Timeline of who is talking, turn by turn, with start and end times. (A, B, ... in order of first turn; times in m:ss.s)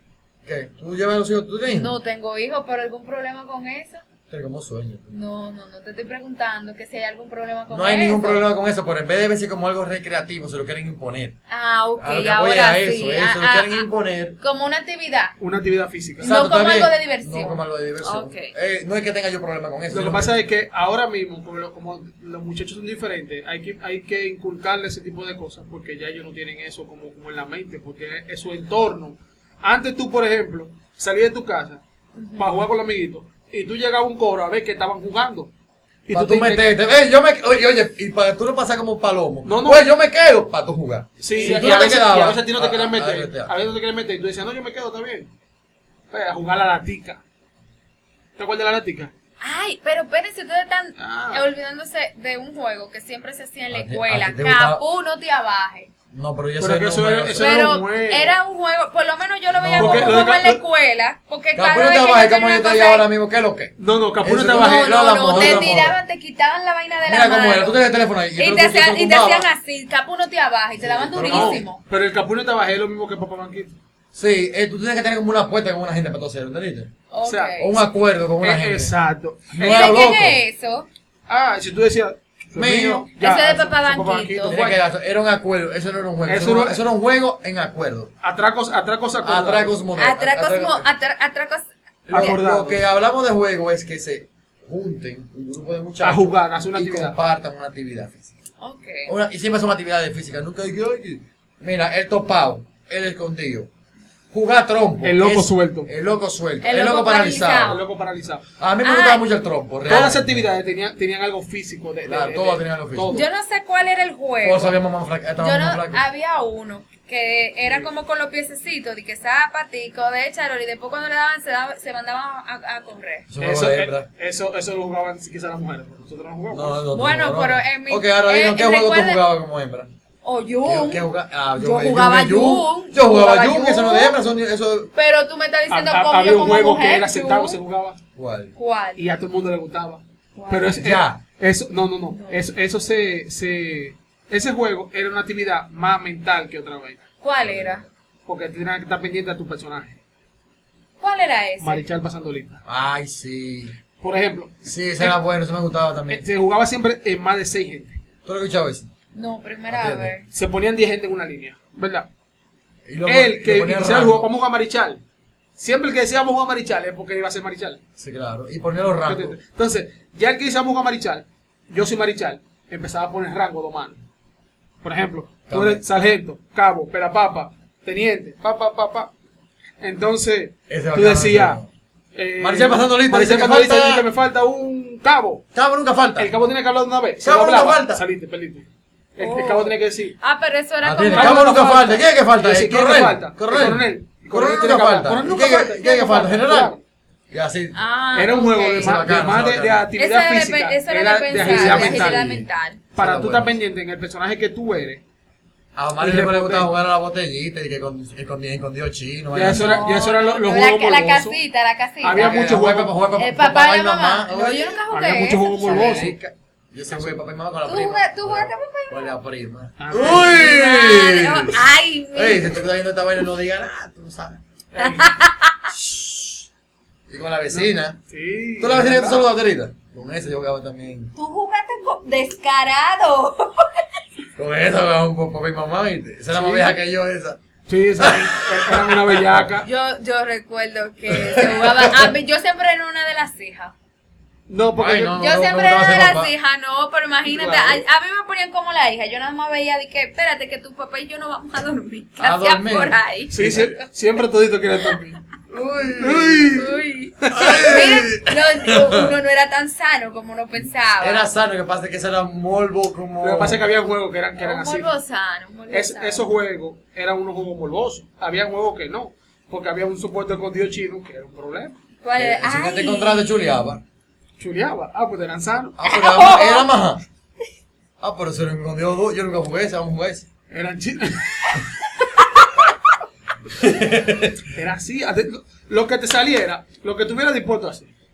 0:00.4-0:01.9 A
0:01.7-0:04.0 B
0:04.3-0:05.1 A
0:05.1-0:08.4 B
0:07.7-0:11.4 A
0:11.5-0:13.9 B
0:12.0-0:14.4 A
0:14.4-0:15.3 B
0:15.4-0:16.3 C
0:16.2-0:18.5 B
0:16.2-0:20.4 A
0:19.9-0:31.8 C
0:32.2-0:32.5 B
0:32.4-0:35.5 C
0:36.1-0:36.7 C
0:36.1-0:43.5 A
0:39.4-0:39.9 C
0:41.2-0:45.3 C
0:41.3-0:41.8 B
0:46.1-0:47.2 C
0:48.4-0:49.1 C
0:49.4-0:55.9 B
0:51.0-0:51.4 C
0:53.7-0:54.8 A
0:56.1-0:57.6 A
0:56.6-0:58.4 C
0:57.4-1:03.1 B
0:59.5-1:00.2 A
0:59.8-1:00.6 C
1:01.5-1:06.0 A
1:03.8-1:05.7 C
1:04.5-1:07.8 B
1:07.0-1:09.5 A
1:08.4-1:11.8 B
1:10.8-1:11.6 A
1:11.2-1:13.7 C
1:14.1-1:16.9 A
1:17.1-1:17.8 B
1:17.2-1:17.6 C
1:17.6-1:18.9 A
1:18.4-1:20.1 C
1:19.5-1:20.4 A
1:19.6-1:20.9 B
1:21.3-1:24.8 C
1:22.6-1:23.1 A
1:23.2-1:24.6 B
1:24.5-1:28.1 A
1:26.2-1:26.8 C
1:28.2-1:29.8 C
1:29.2-1:30.9 A
1:30.0-1:32.4 B
1:32.1-1:38.3 A
1:32.1-1:32.8 C
1:36.0-1:37.2 C
1:38.6-1:39.1 B
1:39.1-1:43.7 A
1:44.3-1:47.8 A
1:45.0-1:45.9 C
1:46.6-1:47.8 B
1:47.7-1:48.4 C
1:48.6-1:50.4 A
1:48.8-1:49.2 B
1:49.8-1:53.2 C
1:52.0-1:53.2 A
1:53.1-1:54.8 B
1:54.4-1:56.0 A
1:55.4-2:03.3 B
2:03.3-2:04.1 A
2:03.4-2:06.8 C
2:06.5-2:09.9 A
2:06.9-2:09.2 B
2:10.2-2:14.2 B
2:10.6-2:14.9 A
2:14.9-2:17.6 B
2:15.7-2:18.0 C
2:18.2-2:18.5 A
2:18.5-2:19.0 B
2:19.0-2:27.0 C
2:20.4-2:20.8 B
2:20.8-2:21.2 A
2:22.1-2:22.4 B
2:27.2-2:27.8 B
2:27.4-2:27.9 A
2:28.2-2:30.0 C
2:31.0-2:31.9 B
2:31.6-2:32.6 C
2:32.6-2:33.7 A
2:34.0-2:35.2 C
2:34.6-2:36.2 A
2:36.1-2:38.0 C
2:38.2-2:38.9 A
2:39.1-2:40.2 B
2:39.7-2:40.1 A
2:40.3-2:42.1 C
2:42.8-2:44.3 A
2:43.0-2:45.0 C
2:45.6-2:47.8 C
2:48.0-2:49.4 A
2:49.0-2:54.0 C
2:54.8-2:59.1 C
2:55.5-2:55.8 A
2:59.8-3:01.6 C
3:00.7-3:01.7 A
3:02.1-3:05.4 C
3:02.4-3:04.1 A
3:05.5-3:06.3 A
3:06.2-3:08.6 C
3:07.2-3:08.0 A
3:09.2-3:10.2 C
3:09.2-3:12.0 B
3:10.8-3:16.7 A
3:11.1-3:16.8 C
3:17.3-3:17.8 A
3:17.7-3:19.0 B
3:18.1-3:22.4 C
3:18.8-3:19.8 A
3:20.0-3:22.8 B
3:21.4-3:22.5 A
3:22.9-3:25.0 C
3:23.0-3:23.5 A
3:25.8-3:30.0 A
3:26.0-3:26.7 C
3:29.3-3:31.4 C
3:29.5-3:32.6 B
3:32.0-3:32.9 C
3:32.2-3:34.8 A
3:33.2-3:36.0 B
3:34.9-3:36.1 C
3:35.6-3:41.6 A
3:36.9-3:37.2 C
3:37.6-3:39.1 B
3:39.8-3:40.5 C
3:40.0-3:42.6 B
3:42.1-3:44.4 A
3:44.7-3:45.1 C
3:44.8-3:45.7 B
3:45.7-3:46.4 A
3:47.1-3:48.0 A
3:47.5-3:49.2 C
3:48.6-3:51.1 A
3:51.1-3:53.8 B
3:54.4-3:57.4 A
3:56.3-3:56.7 C
3:57.7-3:59.7 C
3:58.0-3:59.5 A
3:59.6-4:03.7 B
4:01.1-4:02.1 A
4:04.5-4:05.2 C
4:04.8-4:06.3 A
4:05.2-4:13.6 B
4:07.2-4:07.8 C
4:12.2-4:13.7 A
4:13.3-4:15.2 C
4:15.5-4:16.6 A
4:16.0-4:17.9 C
4:16.5-4:21.3 B
4:17.3-4:19.1 A
4:21.0-4:23.6 A
4:23.2-4:24.9 C
4:24.4-4:26.3 B
4:25.7-4:31.7 C
4:32.0-4:33.3 B
4:32.2-4:33.8 A
4:34.4-4:35.8 C
4:35.8-4:37.0 A
4:35.9-4:36.7 B
4:38.0-4:40.3 A
4:40.5-4:41.6 C
4:43.5-4:44.5 A
4:44.5-4:47.9 C